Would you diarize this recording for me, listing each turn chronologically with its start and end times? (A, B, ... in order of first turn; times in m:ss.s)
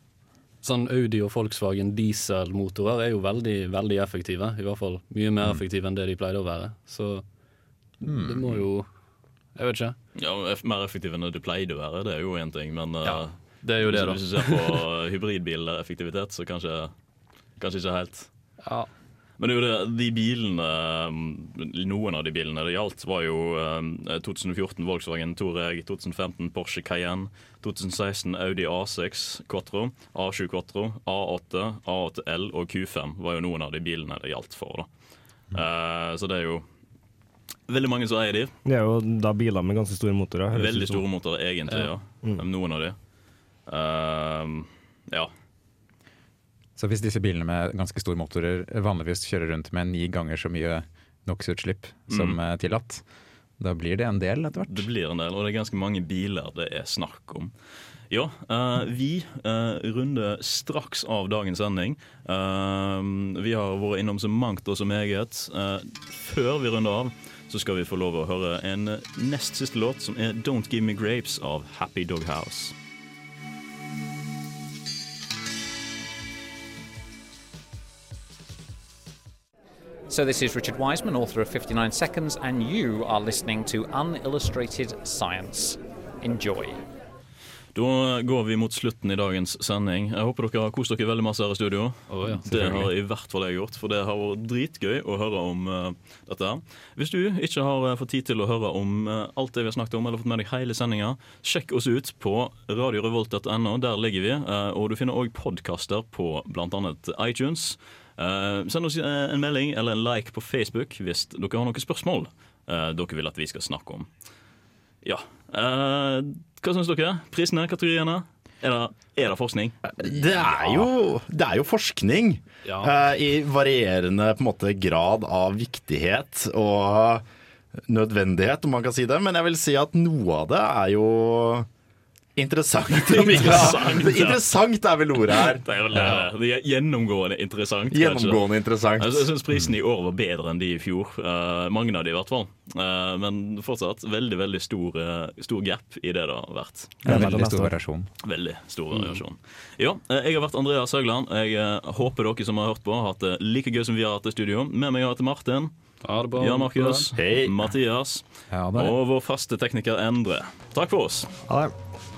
0:00.6-0:07.2 A
0:08.0-0:08.9 A
0:08.0-0:08.6 B
0:09.6-0:10.0 A
0:10.2-0:16.9 C
0:13.0-0:14.7 A
0:17.6-0:18.3 C
0:18.6-0:18.9 A
0:19.4-0:34.9 C
0:35.5-0:36.6 C
0:37.7-0:38.5 C
0:38.6-0:41.0 D
0:40.5-0:43.0 C
0:43.7-0:45.3 C
0:46.8-0:53.0 B
0:52.1-0:52.4 C
0:53.6-0:54.9 B
0:54.7-0:57.5 C
0:58.1-1:12.7 C
1:20.1-1:26.8 E
1:27.7-1:54.1 C
1:32.1-1:32.9 A
1:55.0-1:59.9 C
1:59.9-2:07.2 F
2:00.4-2:00.8 C
2:02.6-2:02.9 A
2:07.9-2:11.7 F
2:12.4-2:16.2 F
2:13.1-2:14.5 C
2:15.4-2:27.2 C
2:17.9-2:19.3 F
2:27.0-2:28.1 B
2:27.1-2:27.7 A
2:28.2-2:35.7 C
2:28.9-2:29.2 A
2:36.0-2:37.1 A
2:36.4-2:41.3 C
2:37.2-2:37.5 F
2:38.5-2:39.0 B
2:41.5-2:41.7 D